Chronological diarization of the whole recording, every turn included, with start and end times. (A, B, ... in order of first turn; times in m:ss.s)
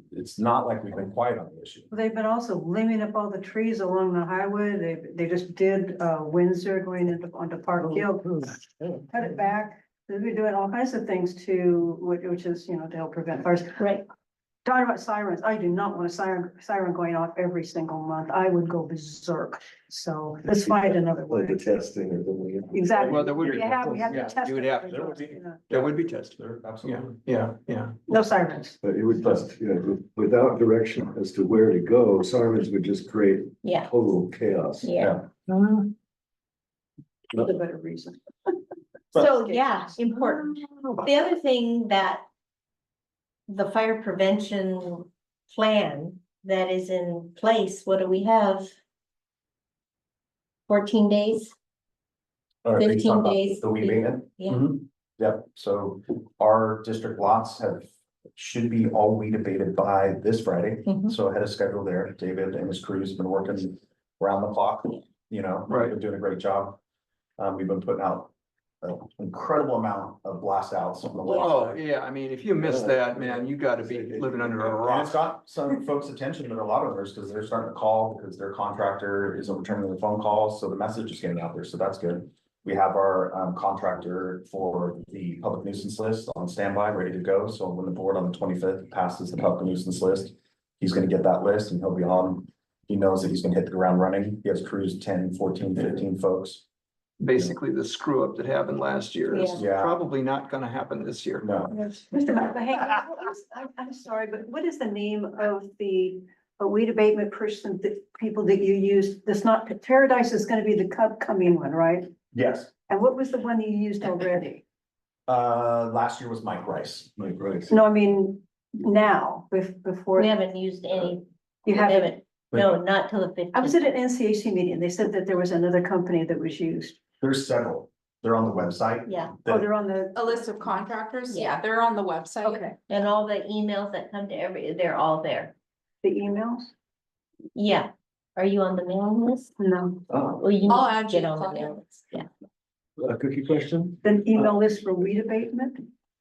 0:00.1-0:01.9 A
0:01.9-0:08.5 B
0:09.1-0:13.8 B
0:13.8-0:14.0 C
0:14.6-0:21.6 B
0:20.7-0:22.9 D
0:22.7-0:25.6 B
0:23.0-0:28.0 E
0:23.0-0:24.3 A
0:25.7-0:27.1 A
0:28.1-0:28.8 B
0:28.8-0:34.9 D
0:33.6-0:33.9 C
0:34.8-0:35.2 C
0:35.0-0:35.3 A
0:37.3-0:38.2 B
0:39.2-0:42.2 C
0:39.2-0:40.2 B
0:43.5-0:48.7 C
0:50.7-0:51.5 C
0:52.6-1:06.8 A
0:52.8-0:54.6 C
1:00.8-1:01.2 C
1:05.7-1:06.0 E
1:07.4-1:11.8 A
1:11.2-1:15.2 E
1:12.6-1:14.8 D
1:14.8-1:36.7 A
1:37.2-1:41.4 E
1:39.3-1:39.6 C
1:39.6-1:40.0 A
1:41.4-1:41.7 A
1:41.7-1:52.1 B
1:52.3-1:52.7 A
1:52.9-1:54.6 B
1:55.3-1:57.1 A
1:57.2-1:57.8 D
1:57.7-2:01.1 B
2:00.2-2:03.9 C
2:01.7-2:02.2 B
2:03.5-2:07.0 B
2:07.2-2:09.7 A
2:09.1-2:09.4 C
2:09.5-2:10.8 B
2:10.2-2:12.7 F
2:11.3-2:11.6 C
2:12.4-2:12.8 B
2:12.9-2:15.5 C
2:16.0-2:16.7 B
2:17.6-2:19.5 C
2:19.6-2:20.1 B
2:20.3-2:22.3 C
2:20.6-2:22.1 F
2:23.0-2:24.6 D
2:24.0-2:25.8 B